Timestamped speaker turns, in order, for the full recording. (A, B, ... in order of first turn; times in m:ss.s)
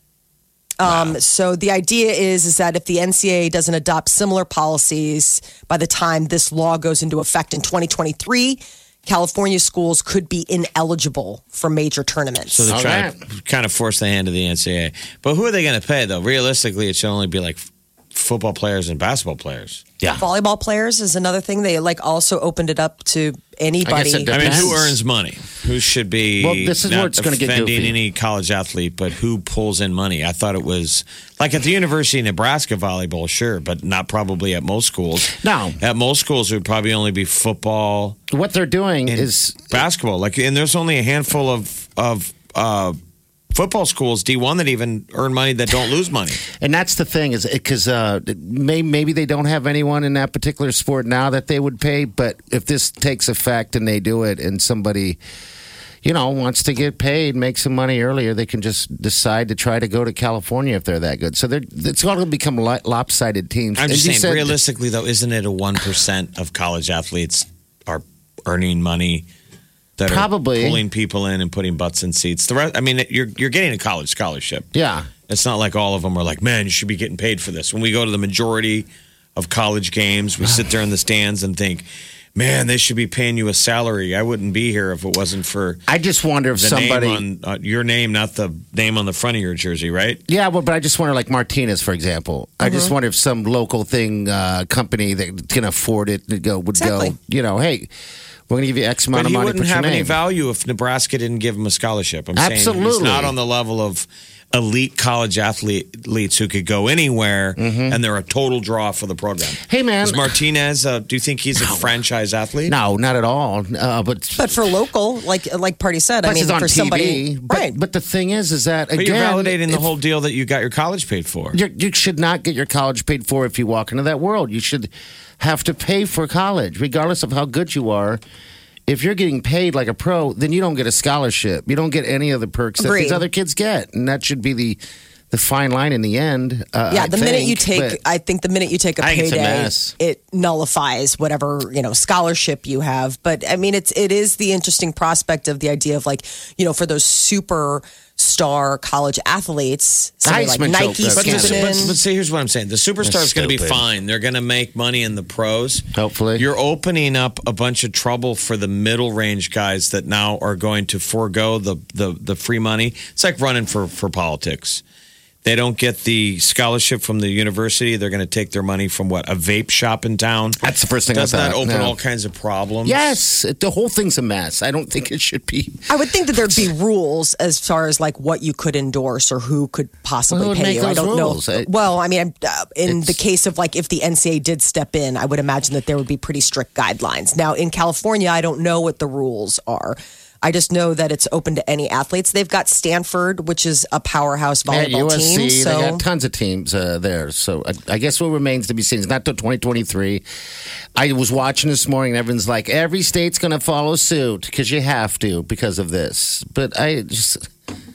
0:00.8-0:12.7 A
0:00.8-0:01.2 B
0:12.5-0:19.8 B
0:12.7-0:13.2 C
0:20.2-0:24.7 A
0:23.8-0:25.0 C
0:24.3-0:38.2 B
0:26.4-0:28.0 C
0:35.3-0:35.8 C
0:38.3-0:39.8 C
0:39.1-0:43.0 B
0:43.5-0:46.4 B
0:46.5-0:55.2 C
0:56.0-1:04.6 C
1:03.8-1:09.3 B
1:10.0-1:14.7 B
1:10.0-1:10.8 C
1:14.7-1:15.1 C
1:15.3-1:25.8 B
1:20.4-1:20.7 C
1:25.9-1:27.2 C
1:26.6-1:30.2 B
1:30.3-1:37.9 C
1:32.6-1:32.9 A
1:36.7-1:37.1 A
1:38.5-1:40.2 C
1:39.1-1:52.7 B
1:42.3-1:43.3 C
1:47.6-1:48.0 C
1:49.6-1:50.3 C
1:51.5-1:51.9 C
1:52.7-1:54.7 C
1:54.4-1:57.8 A
1:56.2-1:59.9 C
1:58.9-2:01.6 B
2:01.5-2:08.2 C
2:08.9-2:14.8 C
2:12.8-2:13.2 A
2:15.3-2:18.0 C
2:16.9-2:32.0 A
2:19.0-2:19.9 C
2:30.2-2:31.9 C
2:31.1-2:44.8 B
2:33.0-2:33.9 C
2:35.9-2:36.5 C
2:45.4-2:53.1 B
2:50.6-2:51.9 C
2:52.8-2:56.7 C
2:55.9-3:16.0 A
3:00.3-3:01.7 C
3:02.8-3:03.2 C
3:14.7-3:20.2 C
3:21.0-3:27.4 C